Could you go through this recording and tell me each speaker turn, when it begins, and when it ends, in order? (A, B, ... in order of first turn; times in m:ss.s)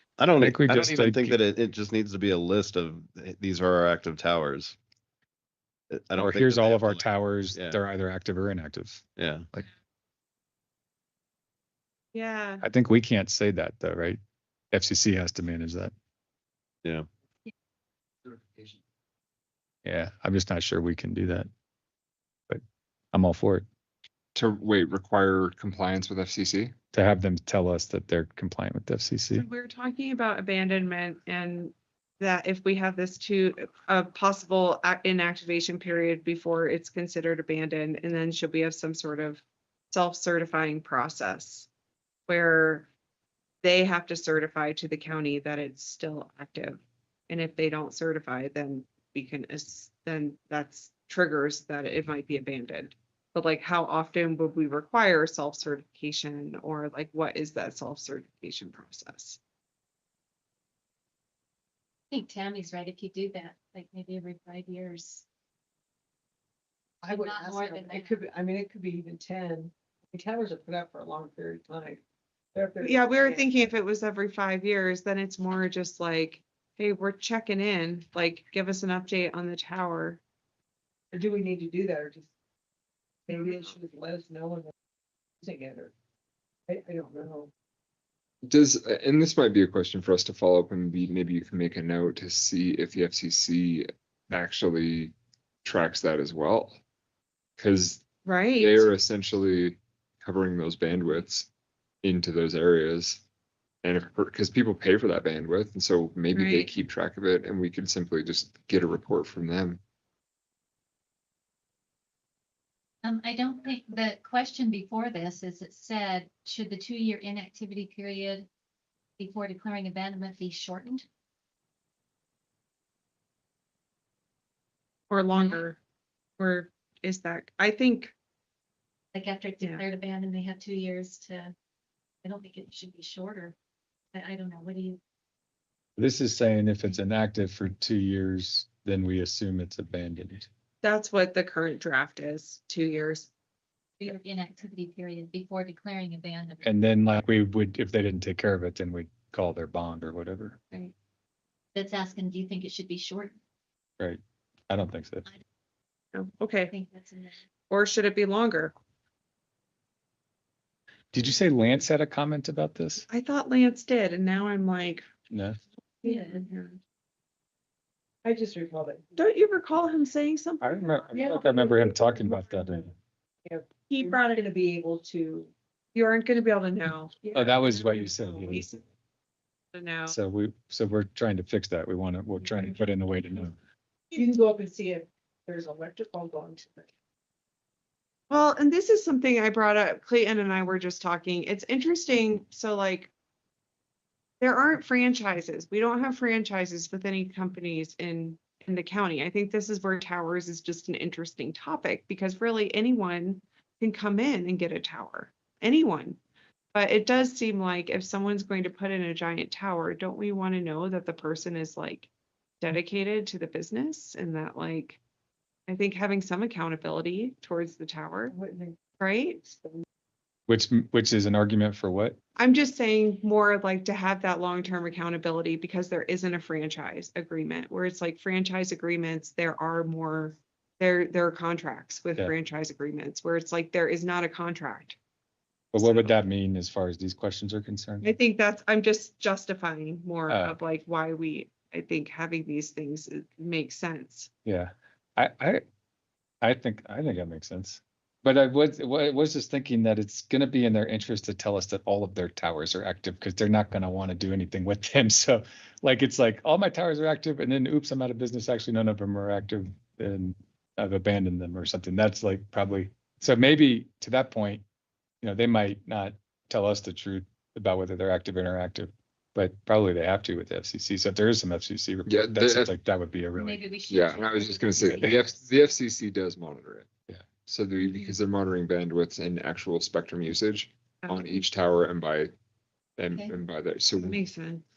0:00.2-0:04.8 A
0:00.4-0:01.4 B
0:05.9-0:07.8 A
0:06.2-0:09.7 B
0:09.2-0:09.5 A
0:12.1-0:12.6 C
0:12.6-0:14.2 B
0:14.7-0:15.9 B
0:19.8-0:21.5 B
0:23.1-0:23.7 B
0:24.4-0:26.8 D
0:26.9-0:29.5 B
0:29.3-0:41.7 C
0:42.3-0:42.9 C
0:43.6-0:59.4 C
1:02.1-1:05.2 E
1:07.0-1:12.0 F
1:07.1-1:08.2 E
1:12.5-1:13.7 F
1:12.8-1:20.2 C
1:21.1-1:22.3 F
1:23.3-1:24.7 F
1:25.4-1:25.9 F
1:26.7-1:27.5 F
1:28.4-1:36.8 D
1:37.6-1:41.5 D
1:38.2-1:38.9 C
1:42.0-1:43.2 D
1:43.8-1:49.8 D
1:46.3-1:46.7 C
1:53.0-1:58.5 E
1:59.2-2:01.0 E
2:05.1-2:05.8 C
2:05.4-2:05.6 E
2:06.4-2:08.1 C
2:09.1-2:11.6 E
2:12.2-2:13.6 E
2:14.1-2:15.0 E
2:16.0-2:20.5 B
2:20.8-2:23.3 C
2:24.0-2:26.7 E
2:26.6-2:30.6 B
2:31.8-2:33.4 E
2:34.0-2:35.3 B
2:36.1-2:36.7 C
2:36.7-2:37.4 E
2:37.7-2:38.8 C
2:41.1-2:43.1 B
2:43.1-2:45.1 C
2:45.3-2:45.6 B
2:46.0-2:46.5 E
2:46.4-2:46.8 C
2:48.2-2:49.1 F
2:49.2-2:51.1 C
2:50.6-2:52.9 B
2:51.1-2:52.9 F
2:53.4-2:55.5 F
2:53.9-2:54.4 C
2:55.9-2:57.2 C
2:57.2-2:58.6 F
2:57.3-2:58.7 B
2:58.5-2:58.8 C
2:59.7-3:00.2 C
3:00.1-3:03.6 B
3:04.1-3:06.9 F
3:08.3-3:13.1 C
3:14.4-3:26.2 C
3:26.7-3:32.1 C
3:32.6-3:35.0 C
3:35.7-3:38.3 C
3:38.3-3:38.8 F
3:39.0-3:39.4 C
3:39.5-3:39.8 F
3:40.5-3:42.2 B
3:42.4-3:55.0 C
3:55.7-3:58.2 B
3:55.8-3:56.2 C
3:58.0-4:04.3 C
4:00.3-4:00.6 B
4:04.4-4:05.6 B
4:06.4-4:24.6 B
4:25.2-4:33.6 B
4:32.1-4:32.7 D
4:33.4-4:35.4 E
4:33.9-4:36.9 D
4:34.8-4:35.2 B
4:37.4-4:42.3 D
4:43.0-4:44.2 D
4:44.0-4:44.6 C